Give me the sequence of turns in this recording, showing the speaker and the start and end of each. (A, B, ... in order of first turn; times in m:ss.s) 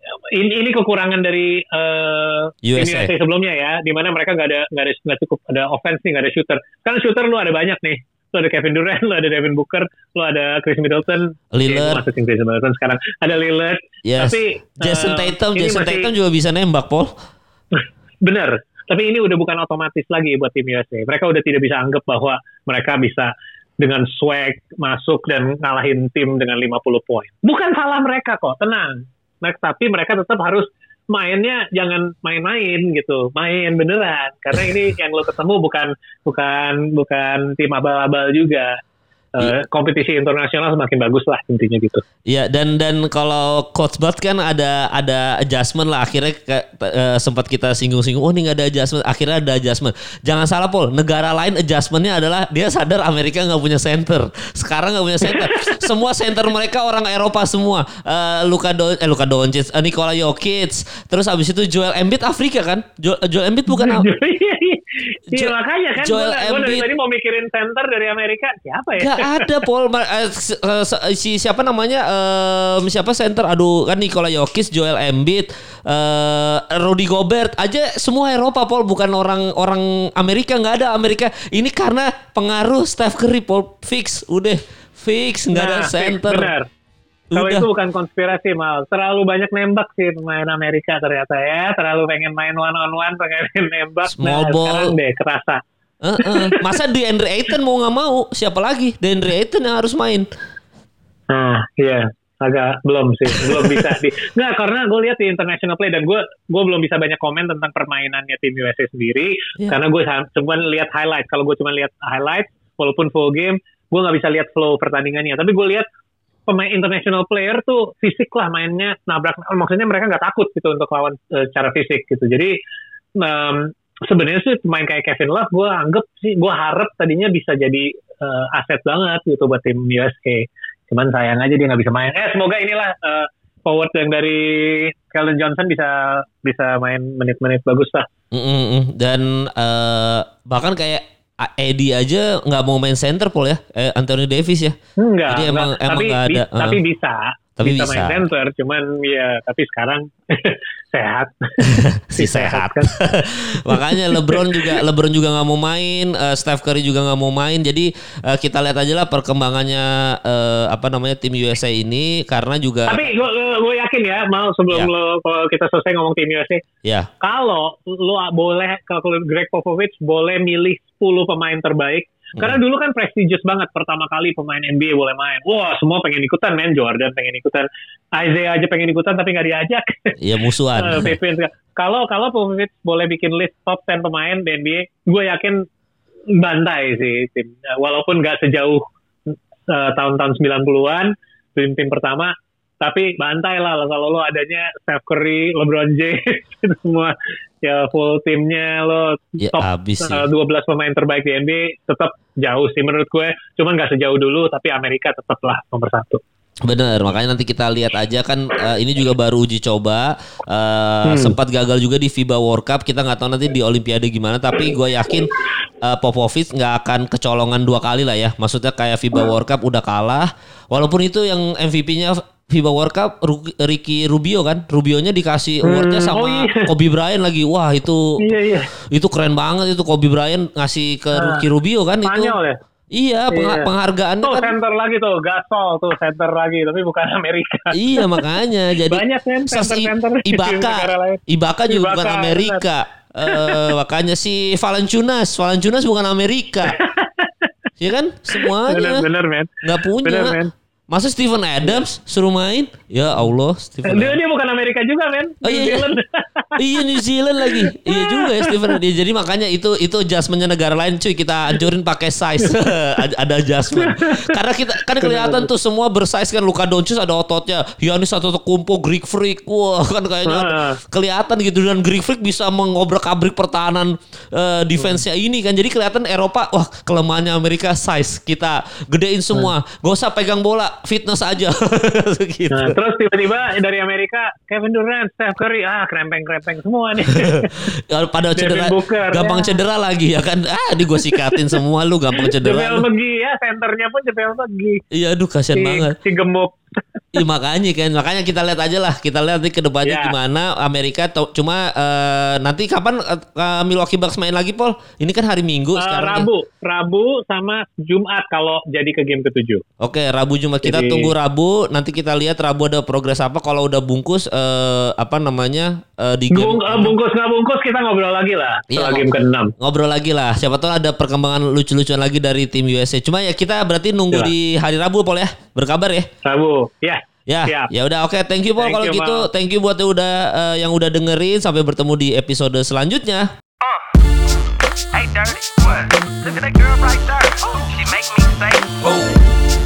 0:00.3-0:16.1 A
0:02.6-0:03.1 B
0:11.5-0:12.0 B
0:14.0-0:17.1 B
0:17.8-0:38.8 A
0:39.4-0:42.0 A
0:42.3-1:04.1 B
0:55.2-0:55.9 A
1:03.7-1:09.5 A
1:05.3-1:06.9 B
1:09.0-1:26.5 B
1:25.5-1:26.7 A
1:27.3-1:27.7 B
1:27.3-1:35.6 A
1:34.1-1:34.9 B
1:36.0-1:40.3 B
1:36.2-1:36.7 A
1:41.3-1:55.9 A
1:43.4-1:43.8 B
1:56.5-2:02.6 A
2:03.2-2:18.1 A
2:18.3-2:24.8 B
2:25.0-2:32.9 A
2:25.3-2:26.8 B
2:27.6-2:28.2 B
2:31.7-2:43.1 B
2:33.7-2:34.8 A
2:42.9-2:46.6 A
2:46.8-2:47.1 B
2:47.2-3:00.1 A
3:00.2-3:01.1 B
3:00.7-3:05.6 A
3:06.4-3:26.2 A
3:19.4-3:20.2 B
3:26.6-3:48.2 B
3:31.0-3:31.3 A
3:45.6-3:46.7 A
3:48.2-3:48.7 A
3:48.9-3:52.3 B
3:51.1-3:51.4 A
3:52.0-3:52.6 A
3:52.9-3:54.5 B
3:53.3-3:53.7 A
3:54.2-3:58.2 A
3:57.7-4:06.8 B
3:58.9-4:02.6 A
4:03.2-4:03.7 A
4:06.7-4:07.5 A
4:07.8-4:09.1 B
4:08.4-4:10.5 A
4:09.6-4:10.4 B
4:10.9-4:14.2 B
4:13.8-4:16.8 A
4:15.4-4:15.9 B
4:16.6-4:42.7 B
4:17.4-4:18.8 A
4:23.7-4:24.4 A
4:24.9-4:25.5 A
4:30.2-4:30.8 A
4:42.5-4:47.5 A
4:47.9-4:52.9 B
4:48.4-4:49.5 A
4:52.2-4:54.8 A
4:54.9-4:56.0 B
4:55.6-4:57.2 A
4:57.1-5:06.3 B
4:59.8-5:00.1 A
5:05.8-5:09.6 A
5:09.8-5:17.0 B
5:10.6-5:11.1 A
5:16.3-5:19.5 A
5:18.7-5:19.0 B
5:19.6-5:26.1 B
5:26.2-5:27.7 A
5:27.3-5:33.3 B
5:28.6-5:29.3 A
5:34.9-5:39.3 C